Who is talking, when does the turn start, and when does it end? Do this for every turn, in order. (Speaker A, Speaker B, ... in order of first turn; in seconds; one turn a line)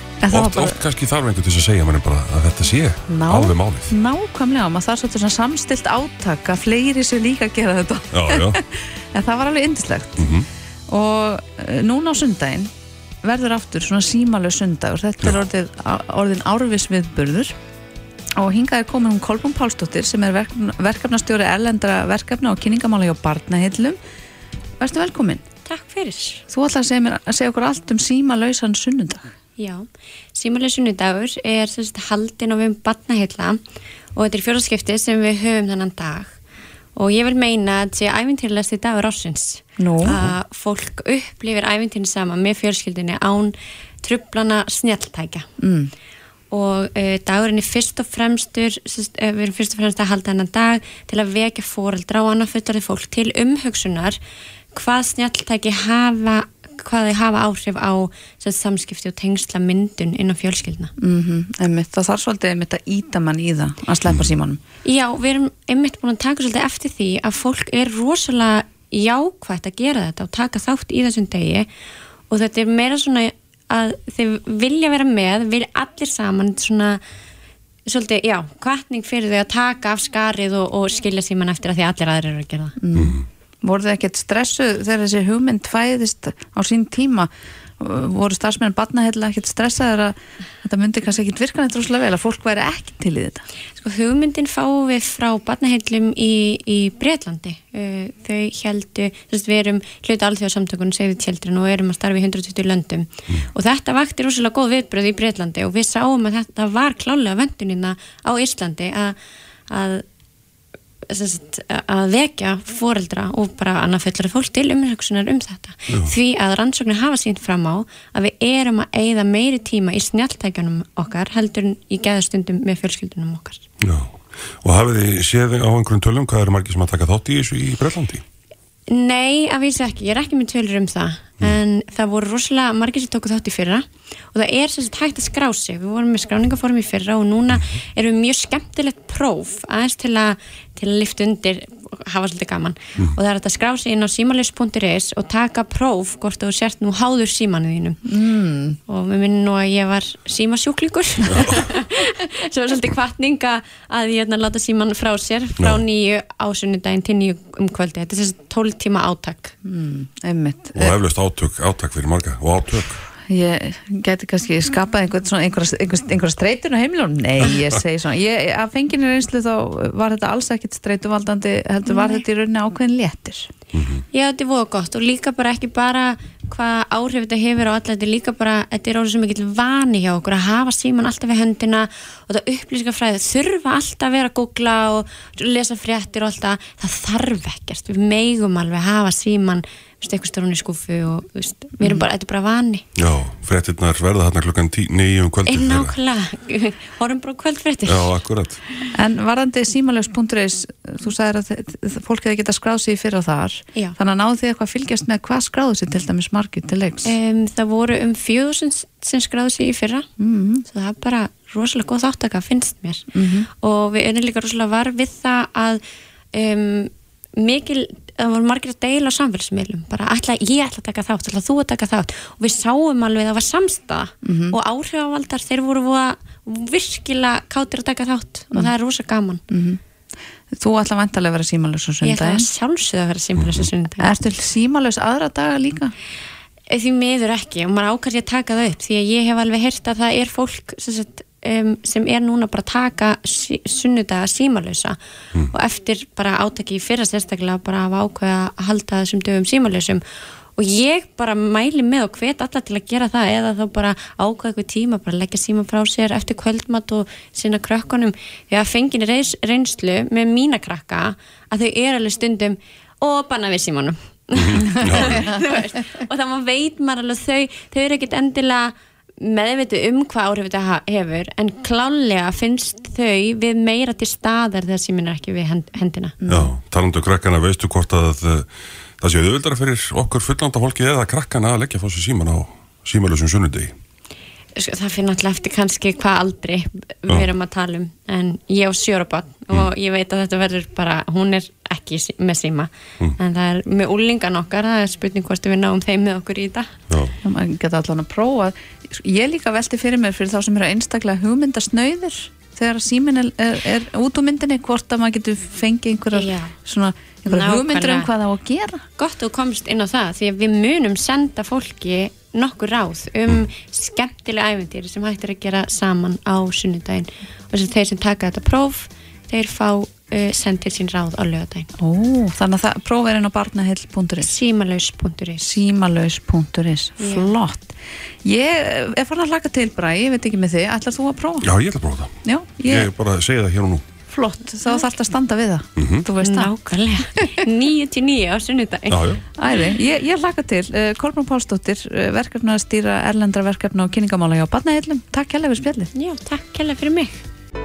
Speaker A: 0.2-0.8
Speaker B: 0.3-3.9
Speaker A: 3.1-10.3
Speaker B: 8.1-8.6
Speaker B: 10.2-10.5
Speaker A: 10.9-12.7
Speaker A: 13.2-17.5
Speaker A: 18.4-24.0
Speaker A: 24.8-25.4
Speaker C: 25.6-26.4
Speaker A: 26.5-29.3
Speaker C: 29.6-33.6
Speaker C: 34.1-36.4
Speaker C: 37.0-45.5
Speaker A: 39.8-40.1
Speaker B: 40.1-40.4
Speaker A: 45.6-45.9
Speaker C: 46.5-54.2
Speaker C: 54.7-60.9
Speaker A: 61.0-64.6
Speaker C: 64.8-71.7
Speaker C: 72.3-77.0
Speaker C: 77.9-82.8
Speaker A: 82.8-87.3
Speaker B: 83.0-83.2
Speaker A: 87.8-93.4
Speaker C: 93.8-109.2
Speaker C: 109.7-110.0
Speaker C: 111.1-123.6
Speaker B: 123.8-128.2
Speaker C: 128.9-148.0
Speaker B: 137.5-137.8
Speaker A: 148.1-148.8
Speaker C: 148.9-159.6
Speaker B: 151.3-151.7
Speaker A: 159.7-161.0
Speaker B: 160.8-163.0
Speaker A: 163.3-173.5
Speaker C: 171.9-172.2
Speaker B: 173.7-174.0
Speaker C: 174.1-192.8
Speaker B: 193.0-195.9
Speaker C: 195.5-198.2
Speaker B: 197.9-198.6
Speaker A: 198.9-207.2
Speaker C: 207.1-210.1
Speaker A: 210.2-210.7
Speaker C: 210.7-215.8
Speaker A: 213.1-213.5
Speaker C: 216.3-229.4
Speaker A: 224.2-224.6
Speaker A: 229.5-229.8
Speaker A: 230.5-232.5
Speaker C: 232.0-234.1
Speaker B: 233.4-233.7
Speaker A: 234.0-235.9
Speaker C: 236.7-250.0
Speaker C: 250.6-276.2
Speaker B: 264.4-265.3
Speaker A: 276.2-276.5
Speaker B: 276.3-283.7
Speaker C: 284.6-296.8
Speaker B: 296.9-297.1
Speaker A: 297.2-308.8
Speaker C: 306.1-306.5
Speaker C: 307.3-308.1
Speaker C: 309.0-321.7
Speaker A: 321.8-324.3
Speaker C: 324.2-325.5
Speaker A: 325.4-331.5
Speaker C: 327.0-327.4
Speaker B: 331.4-332.1
Speaker A: 332.2-332.9
Speaker B: 332.6-333.8
Speaker A: 334.1-336.6
Speaker B: 335.8-336.0
Speaker C: 336.2-339.6
Speaker B: 338.9-339.2
Speaker A: 339.4-345.9
Speaker C: 345.9-347.2